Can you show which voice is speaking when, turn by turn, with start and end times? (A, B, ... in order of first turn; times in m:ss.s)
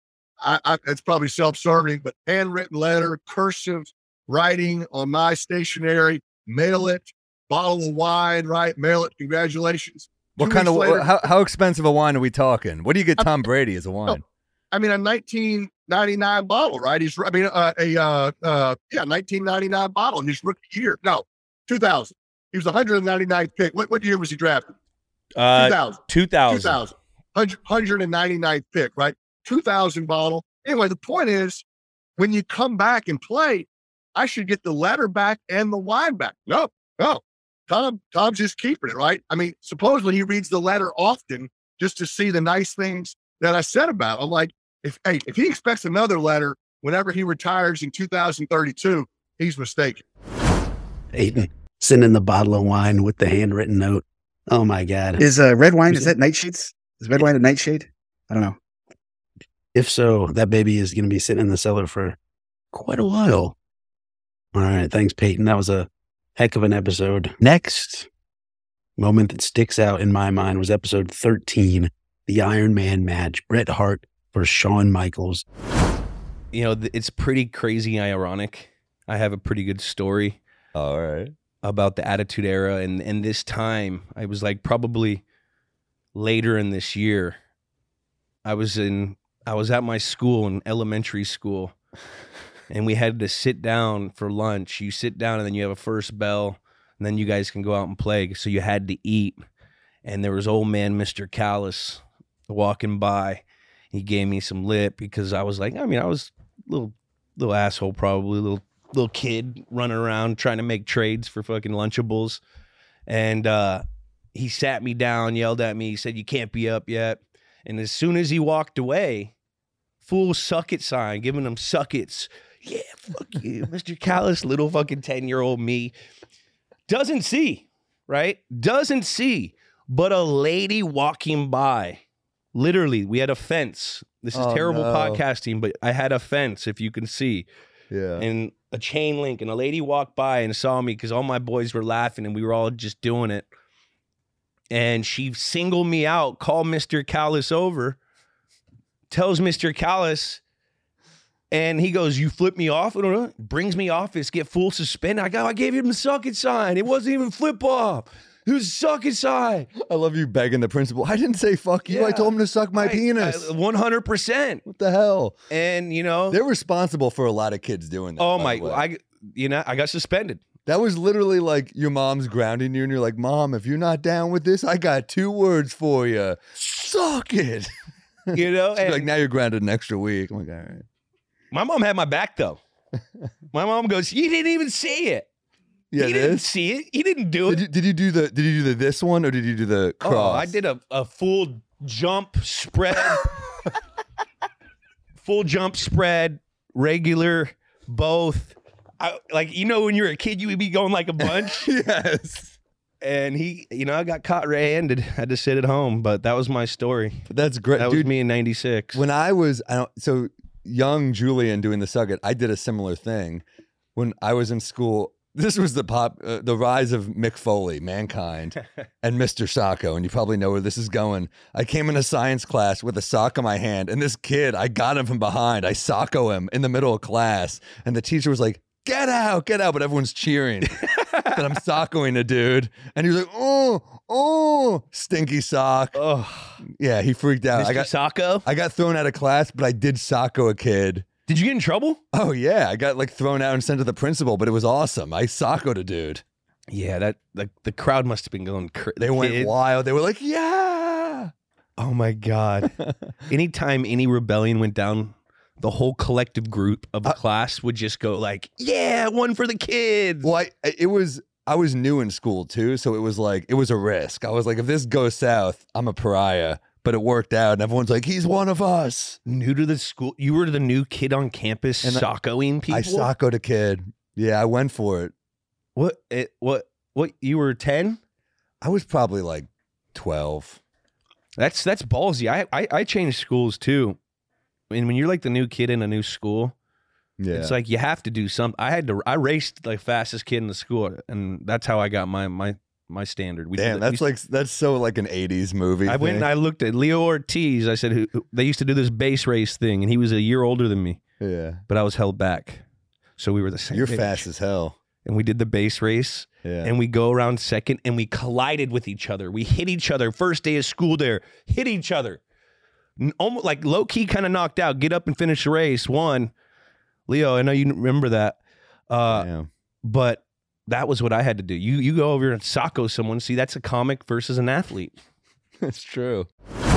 0:00.4-0:11.1 A
0:10.4-0:14.2 B
0:14.7-0:24.7 A
0:25.4-0:26.8 C
0:25.5-0:31.6 A
0:32.2-0:50.0 A
0:51.2-0:55.2 D
0:55.2-0:58.6 E
0:59.7-1:02.2 D
1:02.7-1:03.6 D
1:04.5-1:08.1 D
1:09.0-1:15.4 D
1:16.5-1:20.4 C
1:20.8-1:21.3 B
1:21.6-1:25.2 C
1:26.2-1:27.4 C
1:28.4-1:31.8 C
1:32.7-1:39.4 C
1:40.0-1:52.4 C
1:53.1-1:53.8 C
1:54.3-1:59.3 C
2:00.0-2:05.9 C
2:06.9-2:12.0 C
2:12.5-2:17.5 C
2:14.3-2:15.2 B
2:17.9-2:18.2 B
2:18.2-2:23.5 C
2:24.7-2:28.0 C
2:29.1-2:30.4 C
2:31.5-2:39.7 C
2:39.8-2:43.5 B
2:41.9-2:44.6 C
2:44.6-2:45.4 B
2:45.5-2:46.4 C
2:46.3-2:48.8 B
2:48.2-2:50.4 C
2:50.7-2:57.7 B
2:58.3-3:00.8 B
2:58.3-2:59.1 C
3:01.5-3:02.6 C
3:03.5-3:05.3 C
3:05.9-3:06.4 B
3:06.0-3:07.6 C
3:07.5-3:10.5 B
3:10.0-3:13.3 C
3:15.2-3:21.7 C
3:21.2-3:22.6 B
3:23.0-3:27.2 C
3:27.3-3:28.1 B
3:27.8-3:29.0 C
3:28.9-3:33.4 B
3:34.0-3:56.0 B
3:50.8-3:51.4 C
3:56.0-3:56.6 C
3:56.6-3:57.9 B
3:57.5-3:58.4 C
3:58.4-4:01.0 B
4:01.3-4:02.0 C
4:02.1-4:06.2 B
4:06.7-4:09.5 C
4:09.0-4:11.3 B
4:11.8-4:12.7 C
4:12.8-4:13.2 B
4:13.3-4:20.3 C
4:20.2-4:29.2 B
4:29.2-4:33.1 C
4:31.8-4:32.1 B
4:32.7-4:35.1 B
4:35.8-4:38.0 C
4:38.6-4:40.6 B
4:41.4-4:44.0 C
4:44.7-4:46.5 C
4:47.2-4:47.6 B
4:47.3-4:54.0 C
4:53.5-4:56.3 B
4:55.8-5:01.0 C
5:01.2-5:01.6 B
5:01.7-5:02.6 C
5:03.2-5:04.3 C
5:03.7-5:04.8 B
5:05.0-5:12.2 C
5:06.4-5:06.7 B
5:13.0-5:16.3 C
5:17.1-5:19.3 C
5:19.1-5:19.5 B
5:19.8-5:25.0 C
5:25.6-5:26.3 B